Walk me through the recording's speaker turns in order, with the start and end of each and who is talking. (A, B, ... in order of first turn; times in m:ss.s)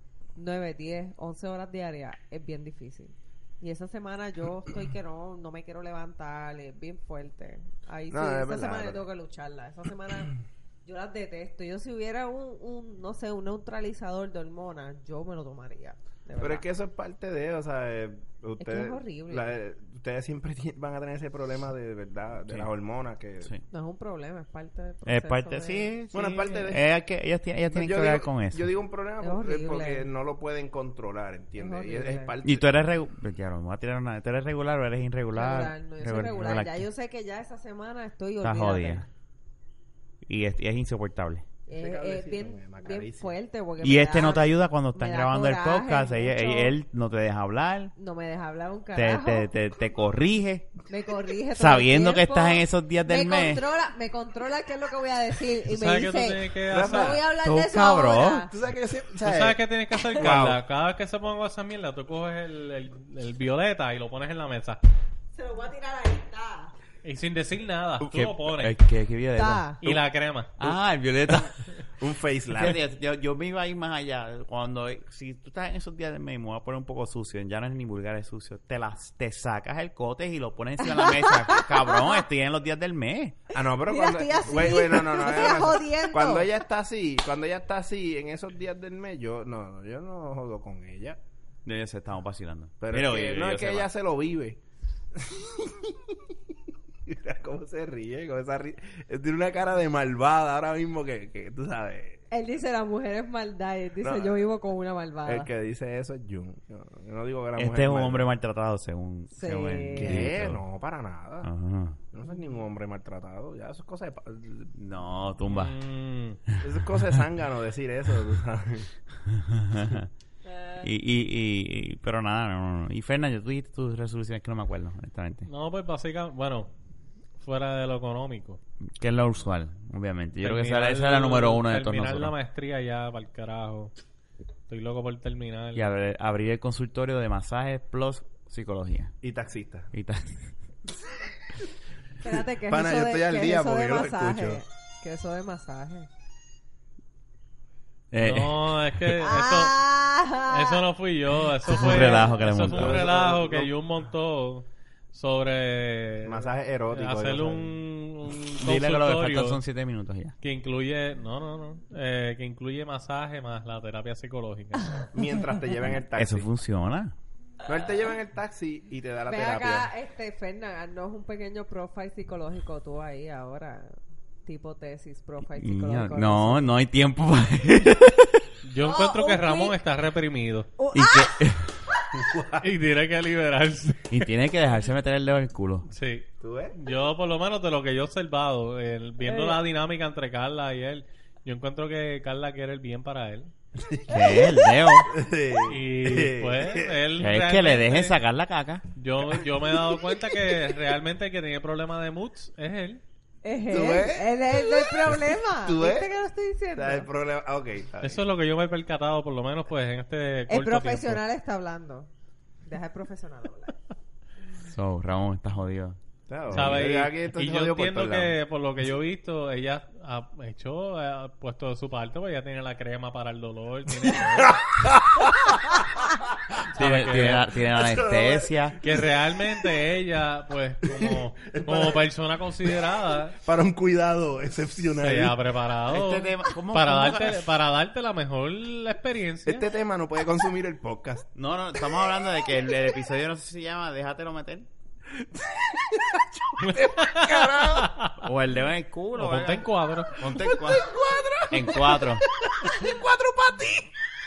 0:00.4-0:16.6 A
0:08.1-0:09.0 B
0:16.4-0:23.5 B
0:18.6-0:19.5 A
0:23.7-0:26.7 A
0:25.0-0:28.6 C
0:26.1-0:26.8 B
0:27.7-0:32.7 B
0:29.2-0:30.1 A
0:31.6-0:32.3 A
0:32.4-0:36.8 C
0:35.3-0:39.1 A
0:38.4-0:39.0 C
0:40.2-0:41.4 C
0:41.7-0:46.7 A
0:41.7-0:43.3 B
0:43.8-0:47.9 C
0:48.0-0:49.5 A
0:48.9-0:50.7 C
0:50.9-0:58.5 A
0:51.5-0:53.6 C
0:55.7-0:57.2 D
0:56.7-0:57.2 B
0:57.4-0:58.5 C
0:58.5-0:59.6 B
0:59.2-1:04.8 D
1:00.2-1:00.6 B
1:05.3-1:06.7 A
1:07.0-1:08.8 D
1:08.0-1:10.0 C
1:09.4-1:09.8 A
1:09.8-1:10.5 D
1:10.6-1:11.5 C
1:12.0-1:12.8 B
1:12.6-1:23.4 C
1:20.8-1:22.2 A
1:23.5-1:31.2 B
1:23.8-1:26.5 A
1:31.6-1:33.9 C
1:32.8-1:34.6 B
1:35.1-1:36.2 B
1:37.1-1:42.2 B
1:42.3-1:45.5 A
1:44.0-1:44.4 B
1:45.2-1:48.3 B
1:47.6-1:50.6 C
1:49.3-1:50.3 A
1:50.0-1:51.5 B
1:51.4-1:52.0 C
1:52.1-1:54.7 B
1:54.7-1:55.7 C
1:55.5-1:56.4 D
1:56.6-1:58.9 B
1:59.2-2:00.1 C
2:00.4-2:00.9 A
2:00.8-2:05.5 C
2:05.5-2:06.7 D
2:07.4-2:08.6 D
2:09.0-2:12.3 C
2:10.4-2:13.9 D
2:14.7-2:15.9 D
2:15.7-2:19.1 C
2:19.2-2:19.9 B
2:19.9-2:20.5 C
2:22.2-2:26.1 A
2:22.3-2:24.6 B
2:28.1-2:29.1 C
2:28.2-2:29.8 D
2:29.2-2:30.8 A
2:30.4-2:39.6 D
2:31.6-2:33.0 C
2:31.7-2:32.2 A
2:32.6-2:33.7 B
2:36.2-2:37.8 B
2:38.6-2:40.3 C
2:40.4-2:45.0 D
2:45.1-2:46.5 B
2:46.1-2:47.1 C
2:47.6-2:49.9 B
2:49.3-2:56.7 A
2:55.6-2:58.5 C
2:58.6-3:00.7 D
2:58.8-2:59.8 A
3:00.8-3:01.4 A
3:00.9-3:01.8 C
3:02.1-3:02.7 B
3:02.6-3:04.2 D
3:04.1-3:05.9 C
3:05.9-3:13.5 D
3:06.4-3:06.8 B
3:09.2-3:09.6 A
3:13.8-3:14.5 B
3:14.1-3:15.1 C
3:15.1-3:17.0 B
3:15.6-3:18.2 D
3:17.2-3:18.8 C
3:19.0-3:23.0 D
3:19.6-3:20.6 B
3:23.4-3:27.1 A
3:23.7-3:26.1 B
3:26.7-3:28.2 B
3:28.0-3:31.2 D
3:30.5-3:32.1 A
3:32.6-3:33.8 A
3:34.6-3:36.0 C
3:36.3-3:38.4 B
3:36.5-3:44.6 D
3:44.3-3:46.1 B
3:46.7-3:47.5 D
3:46.7-3:48.8 C
3:46.8-3:49.1 B
3:48.8-3:53.4 D
3:50.8-3:52.0 B
3:53.4-3:55.4 B
3:55.0-3:59.6 D
3:55.9-3:57.4 C
3:59.4-4:01.3 B
4:01.3-4:04.7 C
4:05.1-4:07.9 B
4:06.6-4:08.1 D
4:08.2-4:10.9 C
4:09.1-4:10.4 D
4:10.3-4:13.9 B
4:11.5-4:12.2 C